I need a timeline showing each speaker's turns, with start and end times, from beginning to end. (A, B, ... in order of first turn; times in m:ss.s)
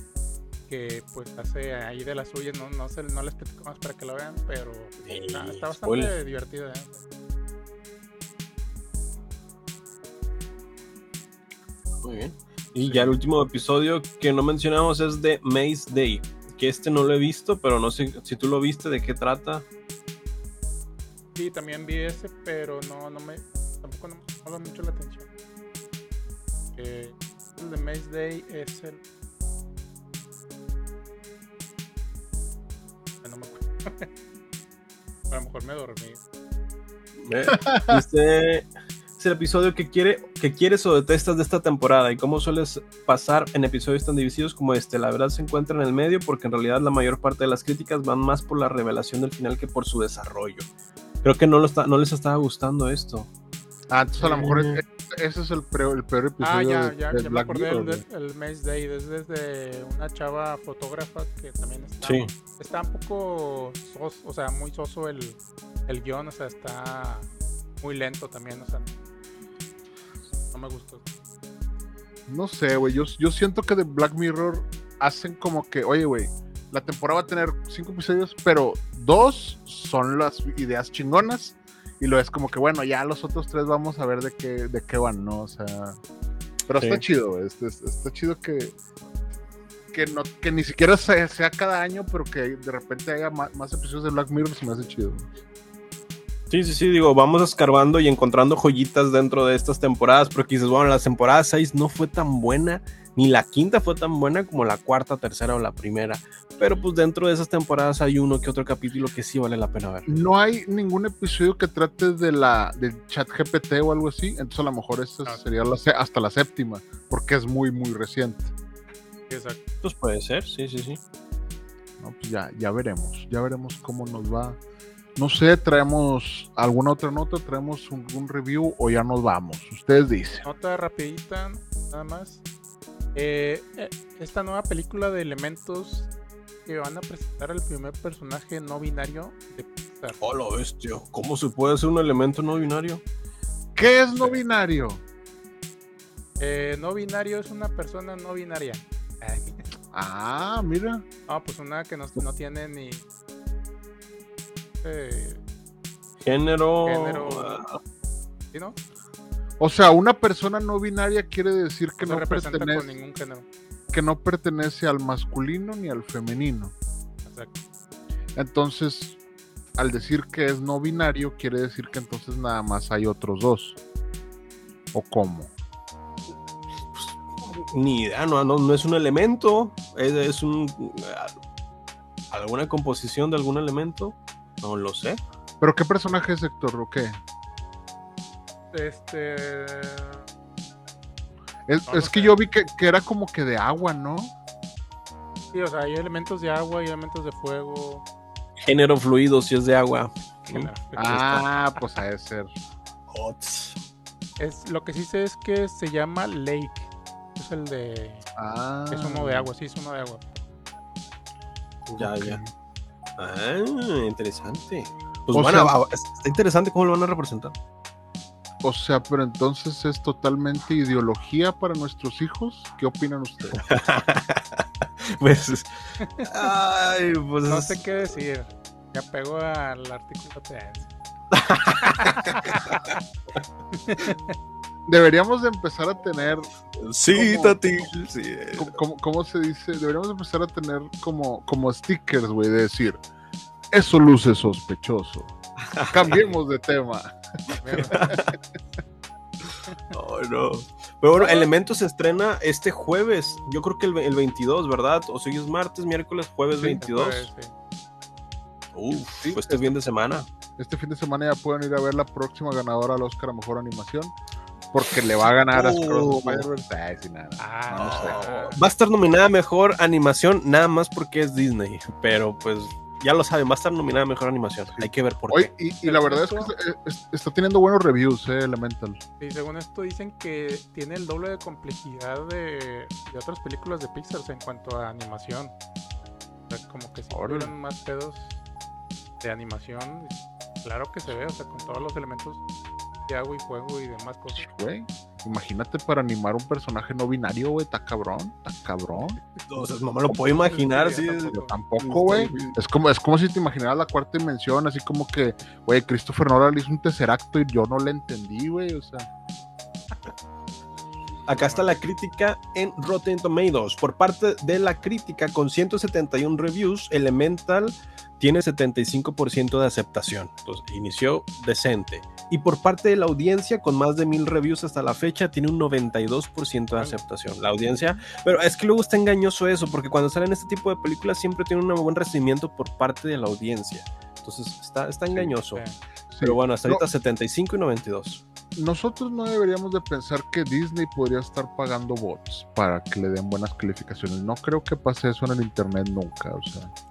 0:00.7-0:07.0 A
0:05.0-0:06.1 B
0:12.0-0:19.6 B
0:12.8-0:13.1 C
0:21.4-0:25.3 A
0:26.8-0:29.0 A
0:33.2-0:34.1 A
0:35.3-0:36.2 A
0:37.2-0:50.7 B
0:37.5-0:38.0 C
0:51.2-0:53.3 B
0:53.9-0:58.0 C
0:54.2-0:54.8 B
0:56.4-1:07.3 A
1:02.0-1:02.3 B
1:07.8-1:08.9 A
1:10.5-1:11.0 A
1:12.3-1:26.0 C
1:26.7-1:28.7 C
1:26.8-1:27.0 B
1:29.9-1:35.3 C
1:36.5-1:50.1 B
1:50.0-1:58.5 C
1:59.3-1:59.6 A
1:59.8-2:01.0 B
2:02.0-2:04.6 C
2:05.2-2:10.5 C
2:10.4-2:12.4 A
2:13.1-2:16.1 A
2:16.6-2:20.2 A
2:20.2-2:23.0 B
2:23.8-2:25.0 C
2:26.4-2:29.6 A
2:29.9-2:31.0 C
2:31.3-2:33.0 A
2:34.8-2:35.4 A
2:36.2-2:37.8 B
2:36.8-2:37.6 A
2:39.6-2:42.9 C
2:42.0-2:43.4 A
2:43.9-2:46.7 C
2:47.2-2:47.6 A
2:48.4-2:49.2 C
2:49.8-2:53.8 C
2:54.9-2:55.5 C
2:56.9-3:01.3 B
3:02.3-3:05.2 B
3:05.6-3:07.2 C
3:08.7-3:10.2 A
3:11.7-3:14.3 C
3:11.9-3:12.4 A
3:15.5-3:18.0 A
3:18.6-3:21.4 B
3:20.5-3:21.8 A
3:21.0-3:22.5 C
3:23.1-3:23.8 B
3:24.4-3:28.2 A
3:28.4-3:29.5 C
3:28.9-3:30.4 A
3:31.9-3:32.4 B
3:32.0-3:32.5 C
3:33.2-3:37.5 B
3:35.3-3:35.7 C
3:38.6-3:43.6 C
3:43.5-3:47.8 B
3:46.0-3:46.3 A
3:47.4-3:50.9 A
3:51.3-3:52.8 B
3:51.8-3:53.0 A
3:53.7-3:54.3 A
3:54.8-3:56.5 C
3:56.8-3:58.7 B
3:57.1-3:57.6 C
3:58.6-4:03.0 C
4:03.7-4:05.3 C
4:05.7-4:06.3 B
4:05.9-4:07.1 C
4:07.6-4:08.2 A
4:07.8-4:08.2 B
4:09.9-4:17.3 B
4:11.2-4:11.5 C
4:16.6-4:17.5 A
4:18.7-4:20.3 B
4:19.2-4:19.8 C
4:20.6-4:24.1 C
4:24.7-4:28.3 C
4:25.5-4:26.5 B
4:27.4-4:28.6 A
4:27.7-4:35.5 B
4:34.7-4:39.0 C
4:35.8-4:36.5 A
4:39.2-4:45.5 A
4:46.5-4:48.3 A
4:47.1-4:47.5 C
4:49.2-4:52.4 A
4:53.1-4:54.5 A
4:54.3-4:59.2 C
4:59.5-5:02.5 B
5:00.4-5:01.5 A
5:00.8-5:09.1 C
5:11.3-5:35.6 B
5:11.4-5:11.7 A
5:36.1-5:36.8 C
5:36.2-5:38.2 B
5:38.6-5:46.7 C